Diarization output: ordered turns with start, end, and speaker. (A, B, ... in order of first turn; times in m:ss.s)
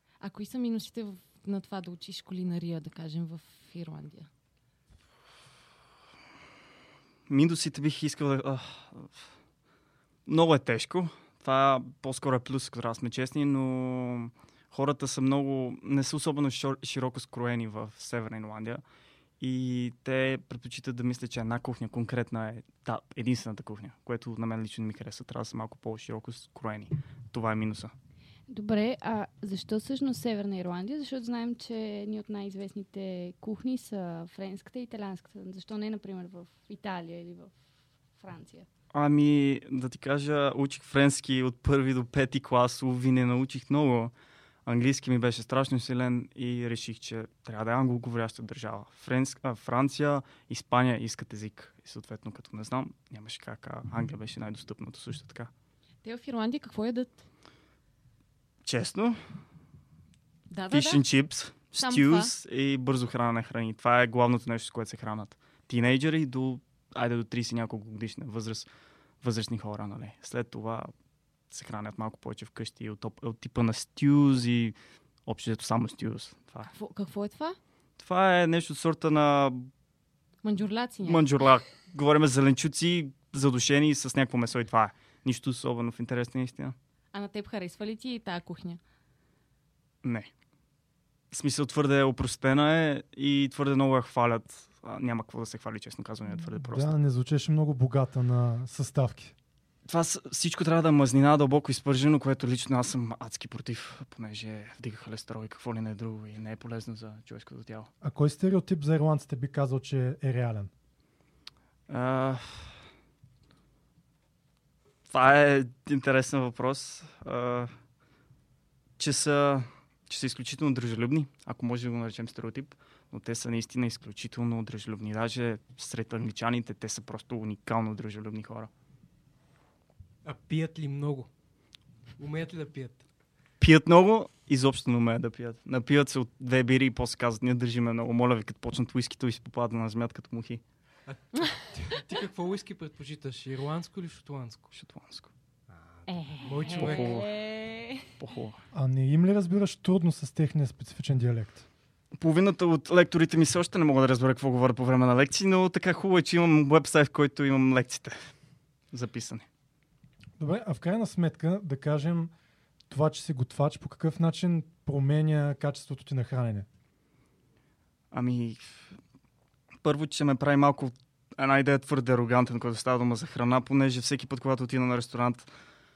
0:00.2-0:04.3 A
0:07.3-0:09.3 B
0:10.3-0:18.8 B
0:19.4-0:27.9 B
0:28.5-0:37.5 C
0:38.1-0:38.7 C
0:38.9-0:44.1 B
0:44.7-0:55.5 B
0:56.0-0:57.2 A
0:58.6-0:59.2 B
1:00.5-1:01.0 A
1:00.7-1:08.7 B
1:01.8-1:02.3 A
1:09.2-1:10.9 B
1:11.5-1:16.7 B
1:16.7-1:17.6 A
1:18.0-1:19.7 B
1:20.4-1:21.2 A
1:21.0-1:26.8 B
1:27.1-1:28.8 A
1:30.0-1:30.3 B
1:31.3-1:37.0 B
1:36.4-1:39.3 D
1:39.9-1:47.9 B
1:48.0-1:50.7 D
1:51.9-1:52.7 B
1:55.1-1:57.7 B
1:59.0-2:08.7 B
2:10.2-2:11.3 E
2:12.2-2:13.0 E
2:13.6-2:20.6 B
2:21.1-2:24.7 E
2:24.7-2:25.3 B
2:26.1-2:28.0 A
2:26.4-2:27.2 E
2:26.7-2:27.3 B
2:28.2-2:28.6 B
2:28.7-2:31.6 D
2:32.2-2:38.3 B
2:38.9-2:39.5 B
2:40.4-2:42.3 D
2:42.9-2:46.7 D
2:48.1-2:49.0 B
2:49.8-2:55.5 B